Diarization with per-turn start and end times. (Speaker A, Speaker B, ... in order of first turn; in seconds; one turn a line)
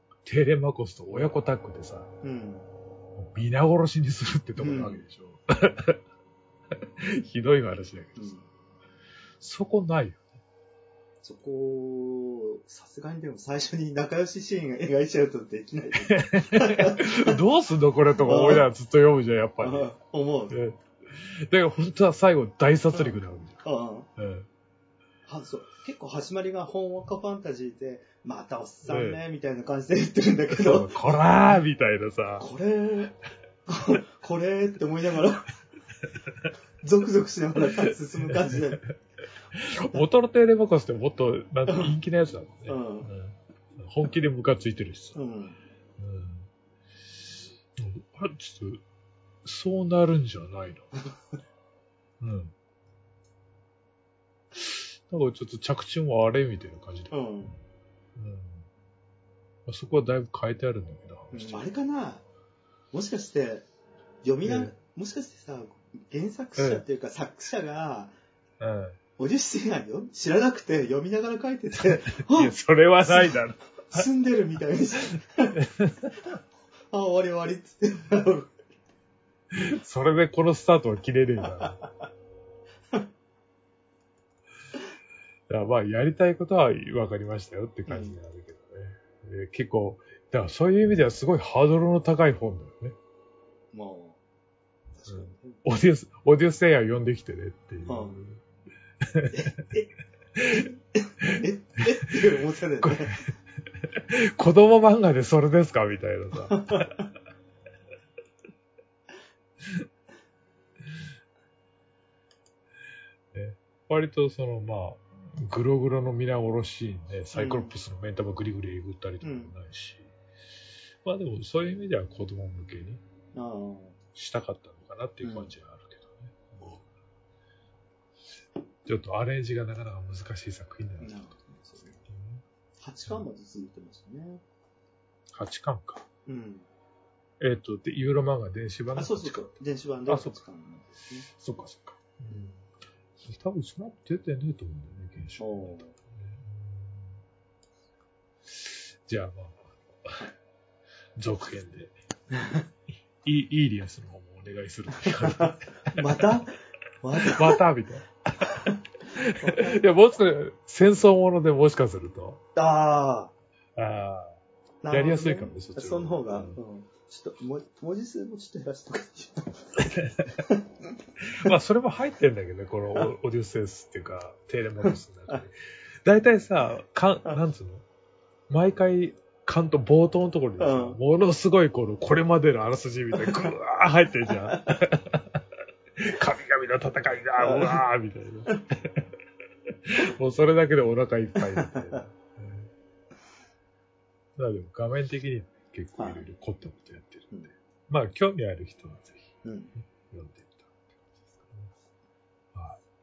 Speaker A: 0.2-2.1
Speaker B: 2.2-2.7
Speaker A: 3.2-6.0
Speaker B: 4.6-5.0
Speaker A: 7.0-8.3
Speaker B: 8.2-8.4
Speaker A: 9.4-10.3
Speaker B: 11.2-17.4
Speaker A: 16.0-19.9
Speaker B: 18.2-18.6
Speaker B: 19.6-20.6
Speaker A: 20.5-23.6
Speaker B: 23.6-24.1
Speaker A: 24.2-24.5
Speaker B: 25.3-31.2
Speaker A: 28.9-29.2
Speaker A: 30.5-32.5
Speaker B: 32.4-35.5
Speaker B: 36.8-38.8
Speaker A: 38.2-38.7
Speaker A: 39.5-45.2
Speaker B: 41.7-41.9
Speaker B: 42.7-43.1
Speaker B: 45.1-45.6
Speaker A: 46.0-46.5
Speaker A: 47.8-48.8
Speaker A: 49.5-50.9
Speaker A: 52.2-52.5
Speaker A: 54.5-57.6
Speaker B: 57.1-57.6
Speaker A: 58.2-58.7
Speaker A: 59.7-61.7
Speaker B: 61.3-62.2
Speaker B: 62.9-63.7
Speaker B: 64.2-68.2
Speaker A: 64.4-64.7
Speaker A: 66.6-66.8
Speaker A: 68.6-69.0
Speaker B: 69.2-75.6
Speaker A: 72.1-74.1
Speaker A: 75.8-76.2
Speaker B: 76.9-78.6
Speaker A: 79.5-81.8
Speaker B: 81.6-81.9
Speaker A: 85.5-93.0
Speaker B: 87.9-88.2
Speaker B: 93.7-94.2
Speaker B: 95.0-95.6
Speaker A: 95.1-98.4
Speaker B: 97.9-98.2
Speaker A: 99.1-99.5
Speaker B: 99.3-99.8
Speaker A: 100.4-100.7
Speaker B: 101.0-103.2
Speaker A: 102.8-103.2
Speaker A: 104.1-107.0
Speaker B: 106.5-106.9
Speaker A: 113.3-120.1
Speaker B: 117.3-117.8
Speaker B: 119.2-119.5
Speaker A: 121.0-123.0
Speaker B: 123.3-124.0
Speaker A: 124.2-126.8
Speaker B: 125.2-125.5
Speaker A: 128.9-131.3
Speaker B: 131.0-132.0
Speaker A: 132.1-132.4
Speaker B: 132.8-134.4
Speaker A: 135.3-136.1
Speaker B: 136.3-136.7
Speaker A: 137.4-139.5
Speaker B: 138.9-141.3
Speaker A: 140.1-140.4
Speaker A: 141.2-142.6
Speaker A: 143.2-147.2
Speaker B: 145.4-145.9
Speaker A: 148.5-150.3
Speaker A: 151.2-151.9
Speaker B: 152.3-152.6
Speaker A: 153.2-156.0
Speaker B: 155.4-157.6
Speaker A: 157.2-158.1
Speaker A: 159.1-162.4
Speaker B: 159.4-159.8
Speaker B: 162.6-163.3
Speaker A: 163.8-164.4
Speaker B: 164.8-169.8
Speaker A: 164.9-166.6
Speaker A: 169.8-170.3
Speaker A: 171.4-177.8
Speaker B: 174.8-175.4
Speaker A: 178.5-185.4
Speaker B: 180.6-181.0
Speaker B: 184.4-184.8
Speaker A: 186.0-189.0
Speaker B: 187.4-187.8
Speaker A: 189.9-192.7
Speaker B: 191.4-191.7
Speaker A: 194.4-199.3
Speaker B: 196.0-196.2
Speaker B: 199.4-199.7
Speaker A: 200.0-201.7
Speaker A: 202.5-202.8